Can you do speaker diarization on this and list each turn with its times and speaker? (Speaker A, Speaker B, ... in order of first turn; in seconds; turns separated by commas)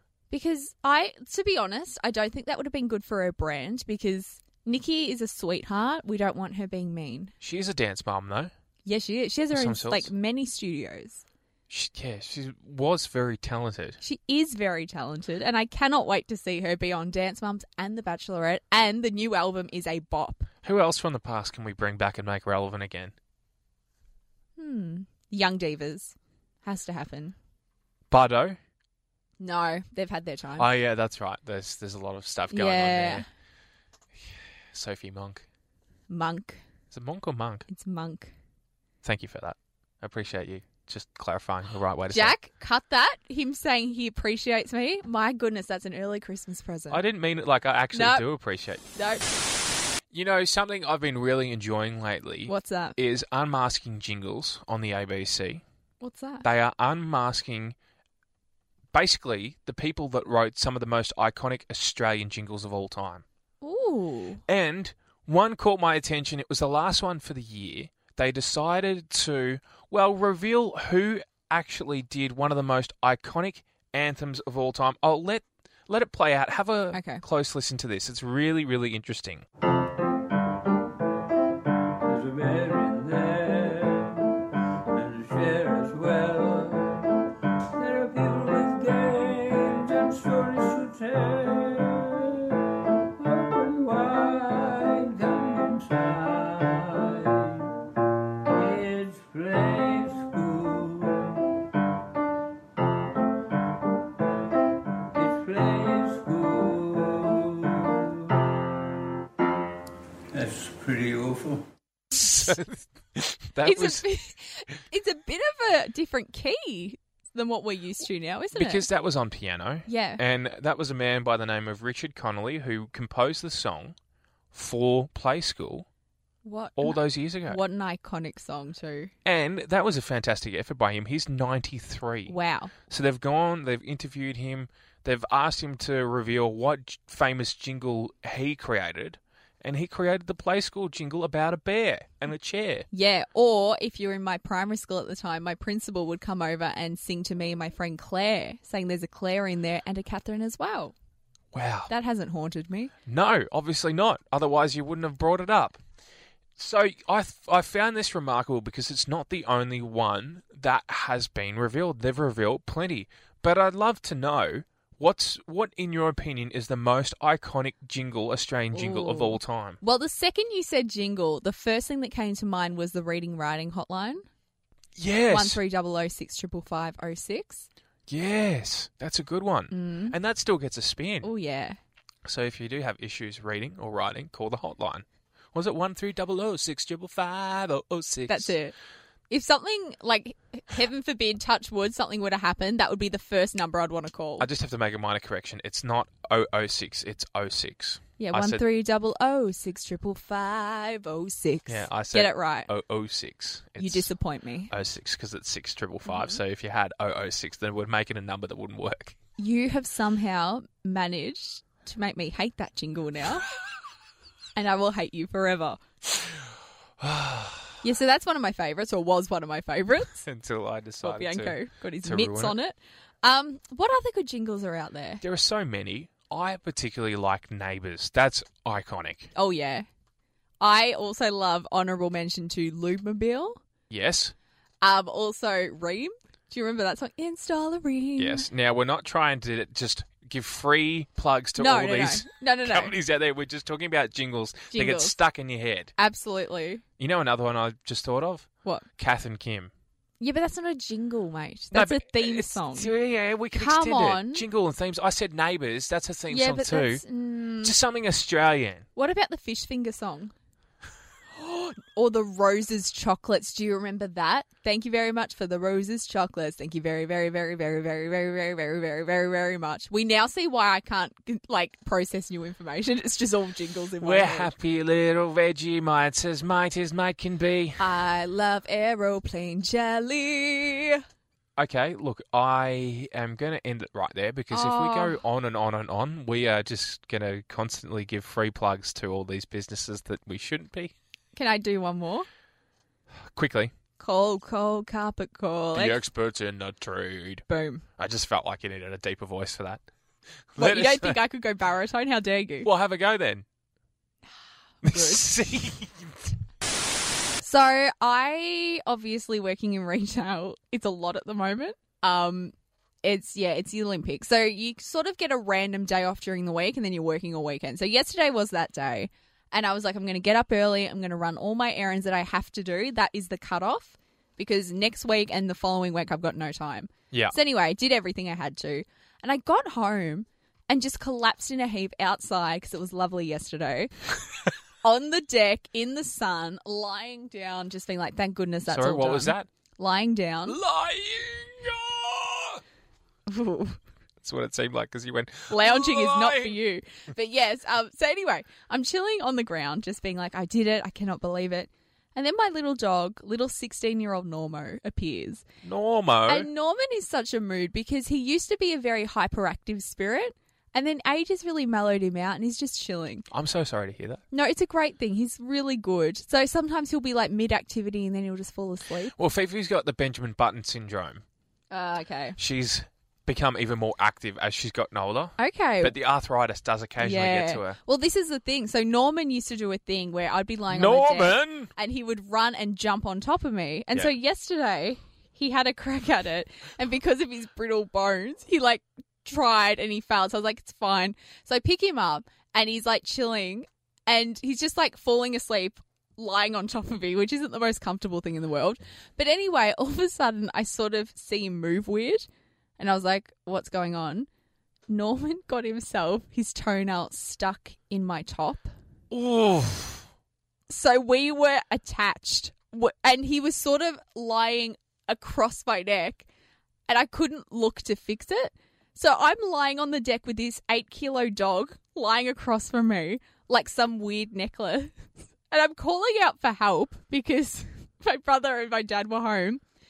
Speaker A: 0.3-7.3, Speaker B: 7.4-8.5, Speaker A: 8.8-11.2, Speaker B: 9.5-10.1, Speaker B: 11.7-14.0, Speaker A: 14.0-20.5, Speaker B: 20.6-23.1, Speaker A: 24.6-27.3, Speaker B: 28.1-28.6, Speaker A: 29.4-30.7, Speaker B: 30.6-33.2, Speaker A: 32.5-33.2, Speaker B: 34.2-35.4, Speaker A: 36.1-36.6, Speaker B: 36.9-37.6, Speaker A: 37.7-38.3, Speaker B: 39.0-42.3, Speaker A: 42.1-47.0, Speaker B: 46.9-48.8, Speaker A: 47.9-48.3, Speaker A: 48.9-49.3, Speaker B: 50.1-55.6, Speaker A: 52.5-53.0, Speaker A: 56.0-56.5, Speaker B: 56.4-57.7, Speaker B: 58.9-63.2, Speaker A: 63.6-64.4, Speaker B: 64.5-79.4, Speaker A: 76.9-77.2, Speaker C: 82.0-84.2, Speaker C: 84.9-87.1, Speaker C: 87.7-92.5, Speaker C: 93.2-97.7, Speaker C: 98.5-101.5, Speaker C: 105.1-108.4, Speaker C: 110.3-111.6, Speaker B: 112.1-114.0, Speaker A: 113.6-118.8, Speaker B: 118.5-123.9, Speaker A: 119.9-120.2, Speaker B: 124.5-125.8, Speaker A: 126.4-129.1, Speaker B: 126.8-127.6, Speaker B: 129.2-132.3, Speaker A: 132.3-132.7, Speaker B: 132.9-142.8, Speaker A: 142.9-150.9, Speaker B: 151.5-151.9, Speaker A: 151.9-152.9, Speaker B: 153.1-155.8, Speaker B: 156.6-169.8, Speaker A: 168.7-174.2, Speaker B: 174.9-175.6, Speaker A: 175.3-177.7, Speaker B: 178.1-181.3, Speaker A: 179.7-180.1, Speaker A: 181.2-181.8, Speaker B: 182.2-188.5, Speaker A: 188.3-188.7, Speaker A: 189.3-194.5, Speaker B: 194.4-198.6, Speaker A: 198.2-202.7, Speaker B: 201.7-204.1, Speaker A: 203.8-204.7, Speaker B: 204.7-209.2, Speaker A: 206.1-206.4, Speaker A: 209.4-213.5, Speaker A: 214.6-215.8, Speaker B: 217.0-217.8, Speaker A: 217.8-220.2, Speaker B: 220.2-222.5, Speaker A: 221.0-225.2, Speaker B: 225.2-229.3, Speaker A: 229.3-229.8, Speaker A: 230.6-233.6, Speaker B: 233.9-234.3, Speaker A: 234.8-238.5, Speaker B: 238.2-245.9, Speaker A: 241.6-242.9, Speaker A: 244.7-245.2, Speaker A: 246.0-246.8, Speaker B: 247.0-249.7, Speaker A: 250.2-252.9, Speaker B: 251.7-257.0, Speaker A: 253.5-254.4, Speaker A: 256.3-257.7, Speaker B: 257.6-258.9, Speaker A: 258.9-260.3, Speaker A: 261.3-274.5, Speaker B: 274.0-277.9, Speaker A: 277.8-281.0, Speaker B: 281.6-290.9, Speaker A: 284.5-285.2, Speaker A: 291.3-292.3, Speaker B: 293.3-293.7, Speaker A: 294.0-296.0, Speaker B: 295.7-297.4, Speaker A: 297.5-297.9, Speaker B: 298.0-299.8, Speaker B: 300.5-301.2, Speaker A: 300.6-302.7, Speaker B: 302.6-303.4, Speaker A: 304.8-305.3, Speaker B: 304.8-306.3, Speaker A: 307.4-333.9, Speaker A: 334.8-340.6, Speaker B: 338.6-339.5, Speaker B: 340.5-342.6, Speaker A: 343.3-343.8, Speaker B: 344.2-346.6, Speaker A: 345.5-355.4, Speaker B: 355.6-356.5, Speaker A: 356.3-363.2, Speaker B: 363.3-364.2, Speaker A: 364.3-369.1, Speaker B: 369.1-371.2, Speaker A: 371.7-372.4, Speaker B: 372.4-377.8, Speaker A: 375.4-375.9, Speaker A: 377.0-402.3, Speaker B: 380.7-381.7, Speaker A: 402.8-404.3, Speaker A: 404.9-408.7, Speaker B: 409.1-410.1, Speaker A: 410.7-416.2, Speaker A: 416.9-425.0, Speaker A: 425.5-429.6